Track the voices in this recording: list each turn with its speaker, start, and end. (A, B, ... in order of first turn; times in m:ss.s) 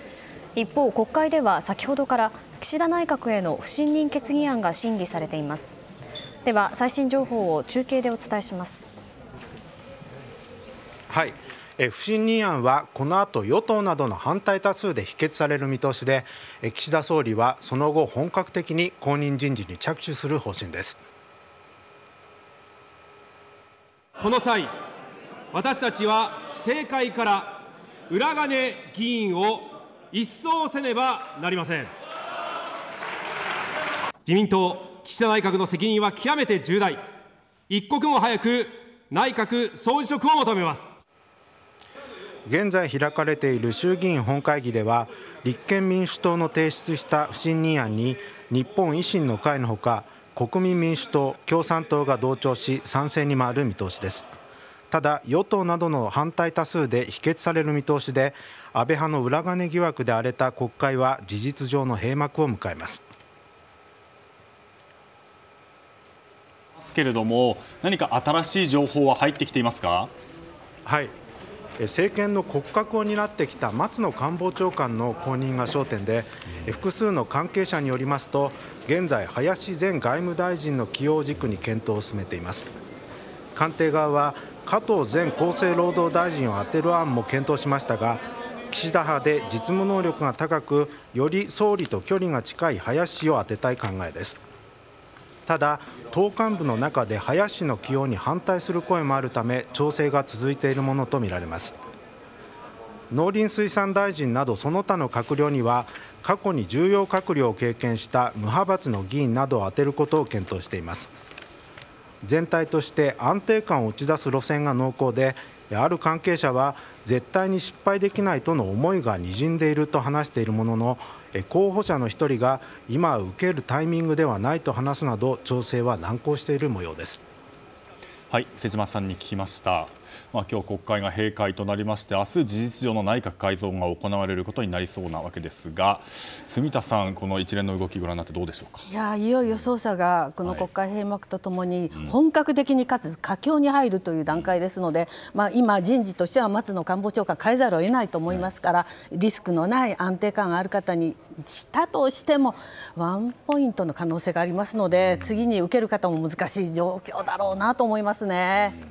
0:00.6-0:05.8 A
0:06.4-0:08.9 A
0:11.1-0:21.0 B
0:24.2-0:24.7 C
0:25.5-0:31.9 C
0:34.3-0:37.0 C
0:37.7-0:41.0 C
0:42.5-0:54.3 B
0:54.9-1:03.0 B
1:06.8-1:10.1 D
1:10.9-1:11.1 B
1:11.8-1:22.7 B
1:23.6-1:34.4 B
1:35.5-1:41.8 B
1:43.1-1:51.1 B
1:52.2-2:07.2 B
2:08.3-2:18.9 D
2:18.9-2:38.8 E